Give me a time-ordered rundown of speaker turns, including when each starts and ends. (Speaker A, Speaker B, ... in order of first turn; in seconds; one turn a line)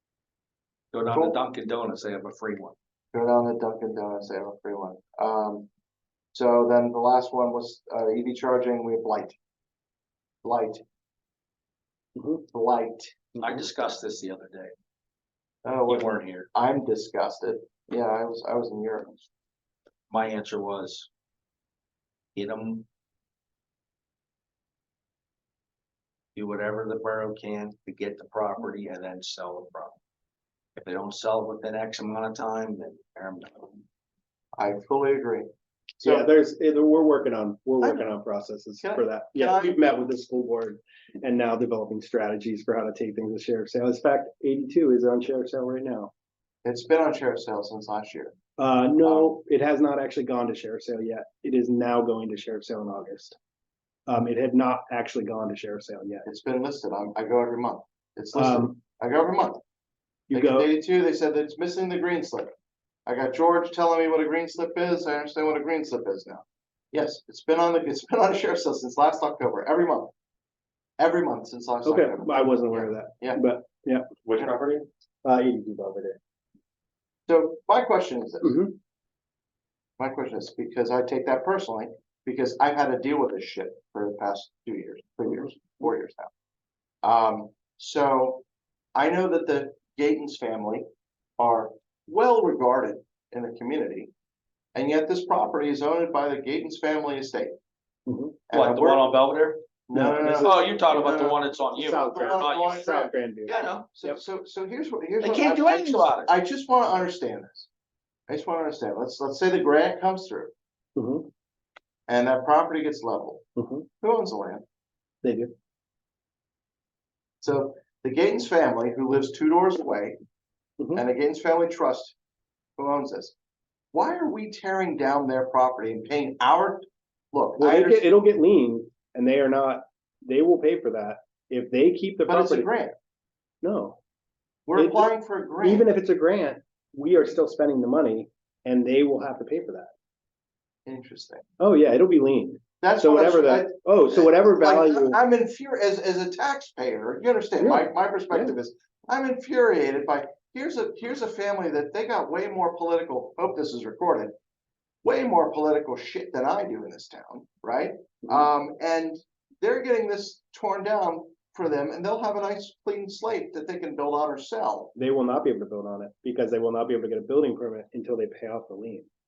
Speaker A: 0.9-2.8
Speaker B: 1.1-1.4
Speaker B: 3.1-5.7
Speaker B: 6.3-9.4
Speaker B: 10.4-10.8
Speaker C: 12.2-12.4
Speaker B: 12.5-13.2
Speaker A: 13.3-14.7
Speaker B: 15.6-19.3
Speaker A: 15.9-16.5
Speaker A: 20.1-21.1
Speaker A: 22.4-22.9
Speaker A: 26.4-30.0
Speaker A: 30.8-33.8
Speaker B: 34.6-35.5
Speaker B: 36.0-36.3
Speaker C: 36.0-46.1
Speaker B: 37.8-38.1
Speaker B: 38.8-39.8
Speaker B: 46.6-48.4
Speaker C: 48.6-53.4
Speaker B: 49.0-49.4
Speaker C: 54.1-56.2
Speaker B: 56.3-59.6
Speaker C: 58.3-58.8
Speaker C: 60.3-60.7
Speaker B: 60.3-62.5
Speaker B: 63.1-70.1
Speaker B: 71.0-73.4
Speaker C: 71.8-74.2
Speaker B: 74.3-74.8
Speaker C: 75.2-76.2
Speaker B: 77.3-78.6
Speaker C: 78.4-78.8
Speaker B: 80.0-86.3
Speaker B: 87.0-88.4
Speaker B: 89.0-90.8
Speaker B: 91.4-94.1
Speaker B: 94.8-97.5
Speaker C: 98.1-98.4
Speaker B: 98.5-99.2
Speaker A: 98.5-99.6
Speaker B: 99.9-101.3
Speaker C: 99.9-100.7
Speaker A: 100.4-103.0
Speaker C: 101.7-104.2
Speaker B: 102.1-103.1
Speaker A: 103.5-103.9
Speaker B: 103.9-107.7
Speaker A: 105.2-106.3
Speaker B: 108.3-110.5
Speaker C: 111.0-111.3
Speaker B: 112.1-113.5
Speaker C: 113.6-113.9
Speaker B: 114.0-114.6
Speaker C: 115.2-115.5
Speaker B: 117.4-120.2
Speaker C: 120.8-121.0
Speaker B: 121.0-122.2
Speaker B: 122.8-123.3
Speaker B: 123.9-128.1
Speaker C: 127.6-132.7
Speaker B: 132.3-132.9
Speaker C: 133.6-134.0
Speaker B: 134.7-135.9
Speaker C: 134.8-135.1
Speaker C: 135.6-139.9
Speaker B: 140.9-141.4
Speaker C: 141.6-145.2
Speaker B: 142.8-154.3
Speaker C: 147.6-148.6
Speaker B: 155.0-164.9
Speaker C: 165.0-169.1